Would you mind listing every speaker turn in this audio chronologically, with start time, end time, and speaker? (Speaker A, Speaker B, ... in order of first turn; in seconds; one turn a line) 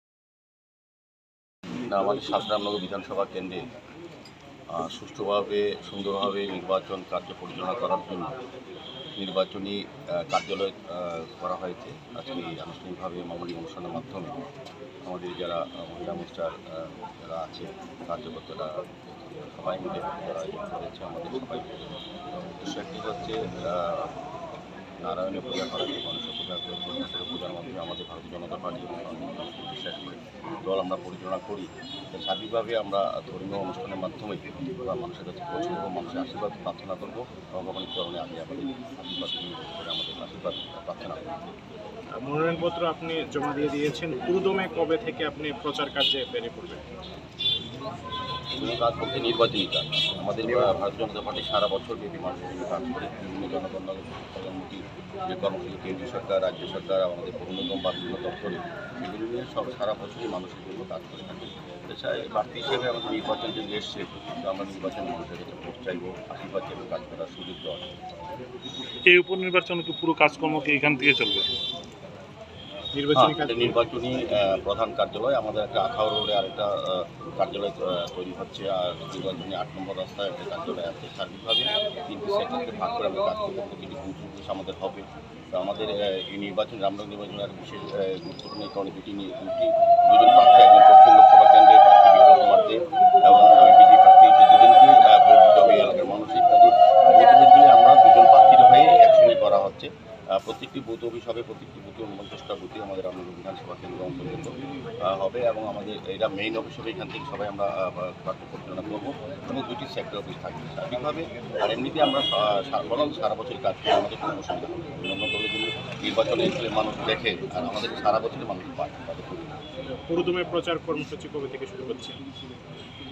Speaker A: 1.9-3.6
Speaker A: 4.7-8.3
Speaker A: 9.2-14.3
Speaker A: 15.1-24.1
Speaker A: 25.0-41.5
Speaker B: 42.2-46.8
Speaker A: 48.5-67.9
Speaker C: 69.1-71.5
Speaker B: 72.9-73.8
Speaker A: 73.2-119.7
Speaker B: 120.1-122.2